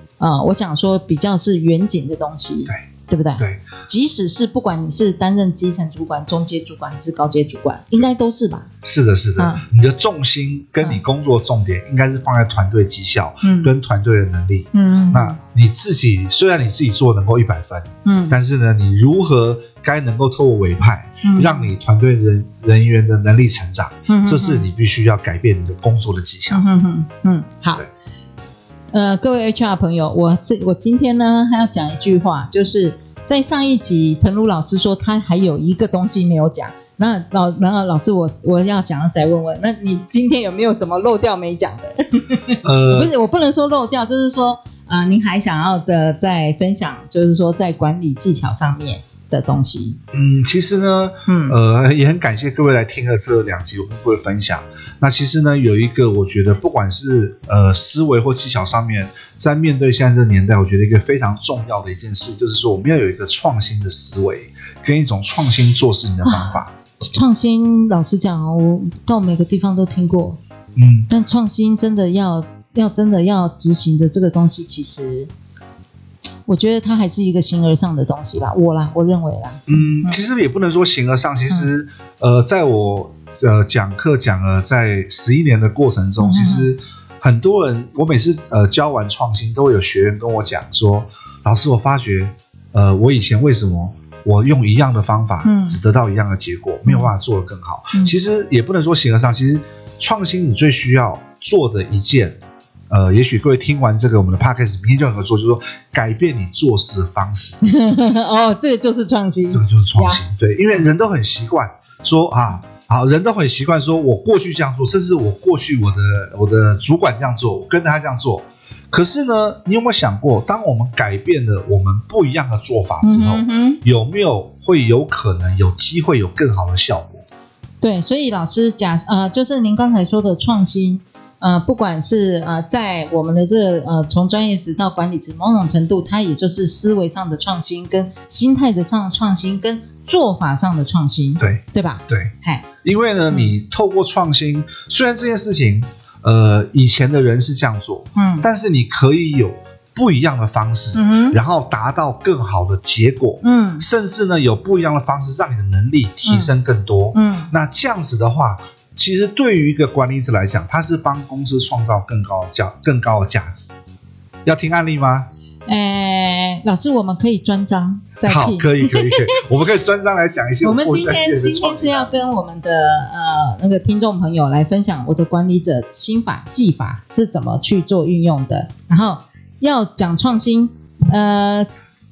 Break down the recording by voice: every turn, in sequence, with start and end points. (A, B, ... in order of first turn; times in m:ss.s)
0:00.2-0:08.7 A
0:08.8-0:26.6 B
0:09.4-0:09.6 A
0:13.4-0:13.7 A
0:14.7-0:15.4 A
0:18.0-0:18.4 A
0:21.2-0:21.7 A
0:24.1-0:24.6 A
0:26.5-0:27.8 A
0:28.9-0:50.0 A
0:42.6-0:43.1 B
0:50.1-1:06.7 B
0:51.3-0:51.6 A
1:06.2-1:10.4 A
1:10.8-1:11.1 B
1:11.1-1:15.3 A
1:16.4-1:20.2 A
1:19.7-1:42.4 B
1:26.2-1:26.7 A
1:35.4-1:35.8 A
1:42.9-1:47.6 B
1:47.6-1:50.2 A
1:49.5-2:07.2 B
2:03.0-2:03.8 A
2:07.8-2:22.6 A
2:21.4-2:22.3 B
2:22.8-2:43.7 B
2:28.2-2:28.4 A
2:30.9-2:31.4 A
2:33.4-2:33.8 A
2:36.2-2:36.5 A
2:37.1-2:37.5 A
2:44.4-2:45.3 B
2:45.6-2:49.4 A
2:48.2-2:52.1 B
2:50.6-3:01.7 A